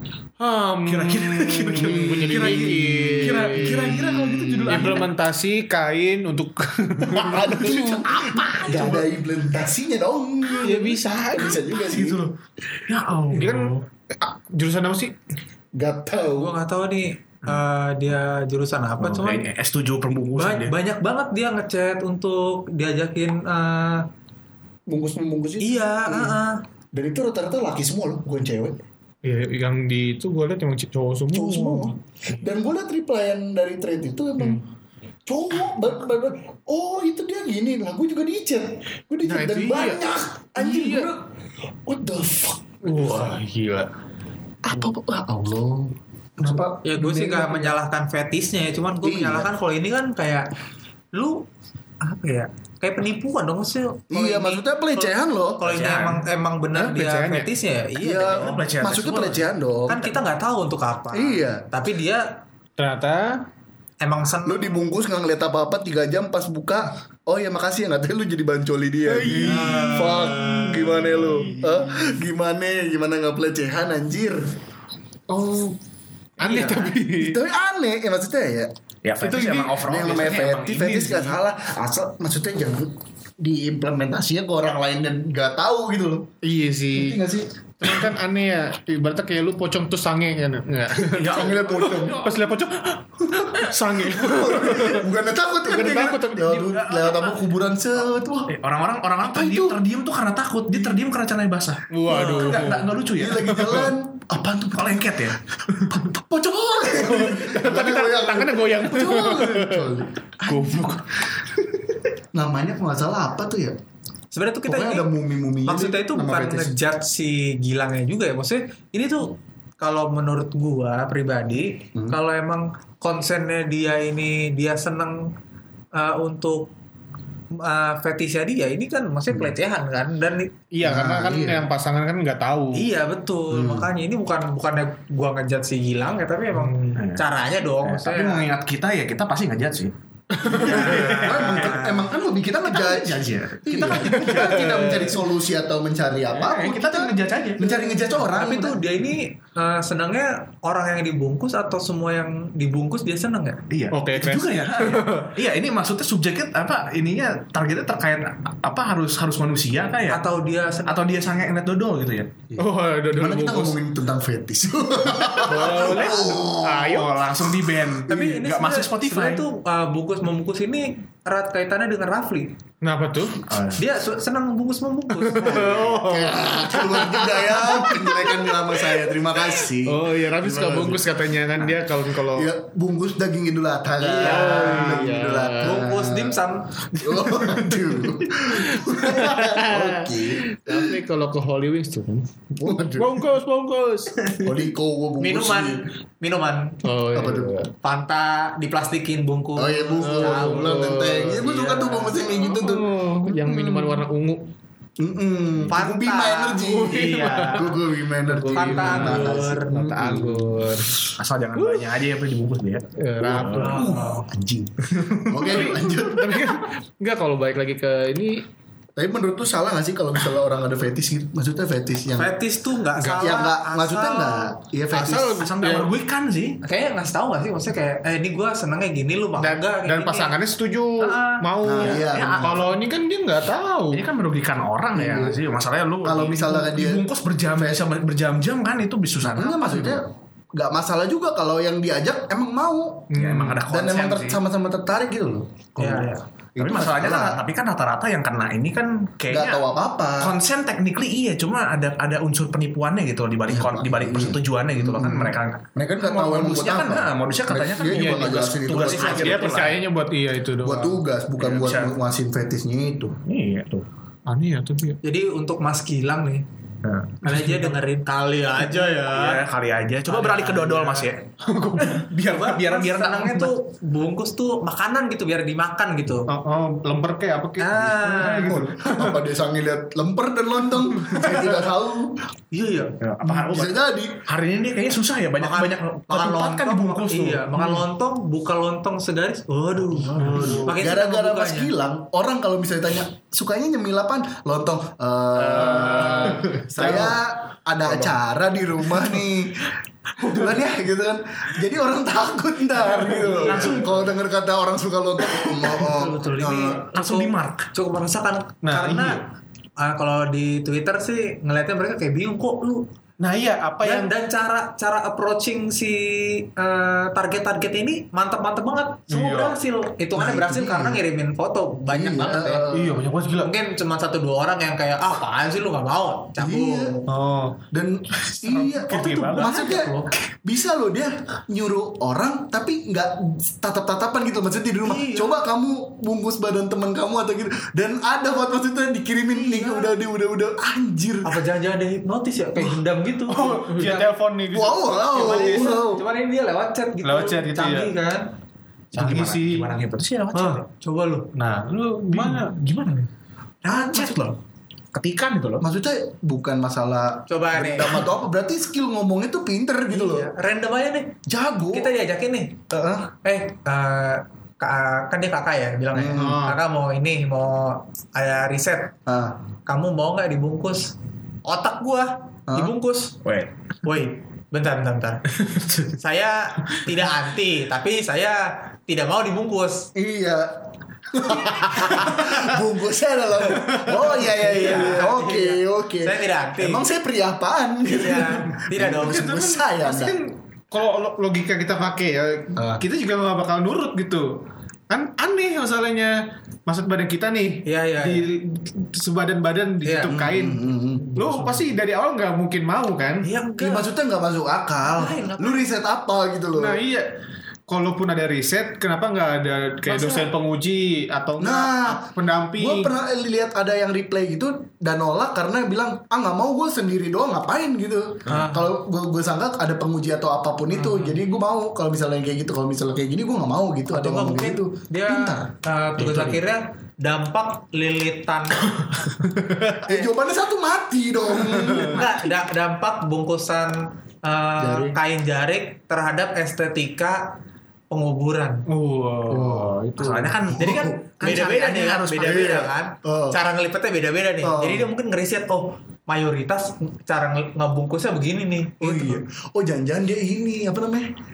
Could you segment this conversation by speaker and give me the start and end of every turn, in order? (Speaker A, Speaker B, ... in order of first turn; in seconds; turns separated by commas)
Speaker A: 0.4-9.1, Speaker B: 0.8-5.1, Speaker C: 2.0-3.7, Speaker C: 4.7-4.9, Speaker C: 7.1-12.2, Speaker A: 10.5-11.6, Speaker B: 11.7-12.3, Speaker B: 12.8-13.8, Speaker A: 13.3-15.2, Speaker C: 15.8-16.6, Speaker D: 16.1-19.5, Speaker B: 19.0-20.8, Speaker D: 20.4-24.1, Speaker C: 24.9-26.4, Speaker D: 25.6-26.6, Speaker C: 26.9-28.8, Speaker A: 29.2-31.9, Speaker C: 31.3-34.6, Speaker C: 35.2-41.3, Speaker A: 39.2-40.0, Speaker A: 40.6-41.1, Speaker C: 41.8-42.6, Speaker A: 42.8-43.9, Speaker C: 44.6-46.7, Speaker A: 46.4-47.8, Speaker D: 46.8-50.5, Speaker C: 49.0-49.5, Speaker D: 51.1-51.4, Speaker D: 52.0-58.7, Speaker C: 54.1-55.6, Speaker B: 55.6-56.2, Speaker A: 56.7-57.5, Speaker C: 58.0-60.1, Speaker B: 58.3-59.5, Speaker D: 59.9-62.4, Speaker C: 61.1-61.6, Speaker A: 62.8-63.5, Speaker D: 64.0-64.8, Speaker C: 64.4-74.5, Speaker A: 69.1-72.2, Speaker A: 75.3-75.8, Speaker A: 76.4-77.4, Speaker C: 76.4-78.7, Speaker B: 79.0-81.4, Speaker A: 79.2-79.8, Speaker C: 79.8-86.3, Speaker A: 86.4-87.2, Speaker C: 86.9-87.5, Speaker A: 87.8-95.1, Speaker C: 91.0-92.3, Speaker B: 91.2-92.1, Speaker C: 94.0-98.5, Speaker A: 95.6-96.8, Speaker B: 96.7-97.4, Speaker B: 98.5-103.9, Speaker C: 99.2-99.8, Speaker A: 101.9-103.9, Speaker C: 103.2-105.3, Speaker B: 104.7-105.9, Speaker C: 105.9-111.0, Speaker A: 106.9-109.9, Speaker A: 110.4-111.0, Speaker C: 112.3-113.8, Speaker D: 114.3-115.1, Speaker C: 114.7-116.8, Speaker D: 115.6-125.3, Speaker D: 125.9-126.7, Speaker D: 127.5-130.5, Speaker A: 130.7-132.9, Speaker C: 130.8-131.7, Speaker D: 132.7-138.5, Speaker C: 133.5-133.9, Speaker A: 136.5-136.9, Speaker B: 137.0-137.2, Speaker B: 137.8-139.9, Speaker A: 140.3-141.4, Speaker C: 140.4-148.8, Speaker D: 140.6-142.0, Speaker B: 140.7-141.9, Speaker B: 142.7-144.7, Speaker A: 144.0-145.2, Speaker B: 146.3-147.8, Speaker D: 148.1-153.6, Speaker B: 153.7-160.2, Speaker A: 153.9-155.3, Speaker D: 160.1-161.0, Speaker B: 160.8-162.3, Speaker A: 162.6-163.8, Speaker C: 163.1-167.1, Speaker A: 165.1-167.2, Speaker B: 165.7-166.0, Speaker B: 167.0-169.4, Speaker D: 168.1-172.5, Speaker A: 172.8-173.5, Speaker B: 173.5-173.8, Speaker D: 173.8-175.9, Speaker A: 175.1-182.5, Speaker C: 175.4-181.1, Speaker C: 181.6-191.0, Speaker D: 184.0-185.1, Speaker A: 184.2-185.9, Speaker D: 185.6-186.7, Speaker A: 187.0-192.3, Speaker C: 192.5-193.2, Speaker A: 192.9-194.3, Speaker C: 194.4-195.8, Speaker D: 195.2-196.8, Speaker A: 196.8-197.7, Speaker C: 197.1-197.6, Speaker D: 197.8-202.2, Speaker C: 199.6-204.0, Speaker A: 200.0-201.5, Speaker A: 202.2-204.5, Speaker C: 205.0-210.7, Speaker D: 205.7-207.7, Speaker A: 206.6-211.9, Speaker D: 208.5-209.9, Speaker B: 211.1-214.0, Speaker A: 213.0-214.0, Speaker D: 213.6-214.2, Speaker C: 213.7-214.7, Speaker B: 214.9-215.6, Speaker C: 215.2-216.6, Speaker A: 215.4-218.4, Speaker C: 219.0-222.3, Speaker D: 222.2-224.5, Speaker A: 222.9-223.4, Speaker C: 223.2-225.4, Speaker A: 224.9-225.9, Speaker B: 225.3-226.6, Speaker D: 226.6-230.3, Speaker A: 229.4-234.0, Speaker B: 231.0-232.7, Speaker C: 231.6-232.7, Speaker B: 233.9-240.0, Speaker C: 234.9-235.4, Speaker C: 236.0-237.0, Speaker C: 239.2-243.1, Speaker A: 243.1-243.6, Speaker B: 243.1-244.4, Speaker C: 243.6-245.7, Speaker D: 245.8-246.2, Speaker C: 246.6-247.4, Speaker B: 246.6-249.6, Speaker C: 249.3-250.3, Speaker B: 250.2-259.8, Speaker C: 253.5-259.5, Speaker A: 257.9-261.0, Speaker C: 260.6-263.2, Speaker B: 261.4-261.9, Speaker B: 263.2-263.9, Speaker A: 264.3-265.0, Speaker D: 265.0-266.4, Speaker B: 266.8-267.2, Speaker A: 267.2-267.8, Speaker D: 267.2-269.4, Speaker B: 268.7-271.3, Speaker D: 270.1-271.1, Speaker A: 271.4-272.1, Speaker B: 271.8-273.6, Speaker D: 271.8-276.3, Speaker A: 276.3-279.3, Speaker D: 277.6-278.6, Speaker C: 278.4-282.2, Speaker A: 280.9-281.6, Speaker D: 282.5-283.0, Speaker B: 283.0-287.5, Speaker A: 283.2-283.5, Speaker C: 283.5-284.2, Speaker D: 285.4-291.7, Speaker A: 287.5-287.8, Speaker B: 289.9-290.6, Speaker A: 290.1-290.8, Speaker C: 290.4-306.8, Speaker A: 295.4-297.2, Speaker A: 297.9-298.1, Speaker A: 302.9-304.0, Speaker D: 303.5-303.9, Speaker D: 305.6-309.2, Speaker B: 306.9-307.7, Speaker A: 308.6-309.2, Speaker D: 309.8-312.8, Speaker A: 313.2-314.1, Speaker D: 313.8-322.7, Speaker A: 319.1-319.6, Speaker C: 320.1-321.0, Speaker C: 321.9-323.0, Speaker A: 322.7-323.5, Speaker D: 323.4-327.0, Speaker C: 326.4-326.9, Speaker A: 327.1-327.6, Speaker C: 327.7-341.4, Speaker A: 328.4-329.5, Speaker D: 328.8-330.1, Speaker D: 334.8-335.4, Speaker D: 339.3-339.9, Speaker D: 341.2-344.1, Speaker A: 343.3-345.8, Speaker C: 344.5-346.0, Speaker D: 345.1-348.3, Speaker A: 347.0-347.9, Speaker B: 348.9-350.6, Speaker A: 348.9-349.7, Speaker D: 350.3-351.3, Speaker A: 351.3-352.5, Speaker B: 352.1-353.1, Speaker B: 353.6-354.4, Speaker D: 353.7-354.2, Speaker B: 354.9-355.6, Speaker C: 355.6-360.3, Speaker D: 357.3-358.0, Speaker D: 359.9-361.2, Speaker C: 361.3-361.9, Speaker D: 361.7-362.6, Speaker C: 362.7-363.1, Speaker D: 363.2-368.9, Speaker C: 365.9-366.4, Speaker A: 366.1-366.6, Speaker C: 369.1-369.4, Speaker D: 369.6-370.9, Speaker D: 371.4-373.2, Speaker C: 372.5-372.7, Speaker B: 373.2-373.5, Speaker D: 373.8-375.2, Speaker B: 375.4-375.8, Speaker D: 375.8-379.9, Speaker C: 379.9-390.2, Speaker D: 381.6-382.3, Speaker D: 383.5-386.9, Speaker A: 383.7-384.0, Speaker D: 387.9-389.3, Speaker A: 388.7-403.3, Speaker C: 392.6-392.8, Speaker D: 397.6-398.2, Speaker D: 399.8-400.1, Speaker C: 400.0-401.2, Speaker D: 403.2-403.9, Speaker C: 403.6-406.8, Speaker D: 404.9-405.7, Speaker A: 406.5-407.1, Speaker A: 407.7-412.9, Speaker D: 409.9-410.3, Speaker C: 411.4-425.5, Speaker D: 418.3-418.7, Speaker D: 423.9-429.0, Speaker B: 426.0-426.4, Speaker A: 429.2-430.0, Speaker C: 429.8-432.1, Speaker A: 431.4-432.0, Speaker D: 431.8-437.3, Speaker C: 434.6-435.0, Speaker D: 437.9-438.6, Speaker A: 438.7-440.4, Speaker C: 439.3-439.8, Speaker B: 439.9-442.6, Speaker D: 440.5-449.2, Speaker C: 440.6-440.9, Speaker C: 442.2-443.4, Speaker C: 444.4-444.9, Speaker C: 448.8-451.1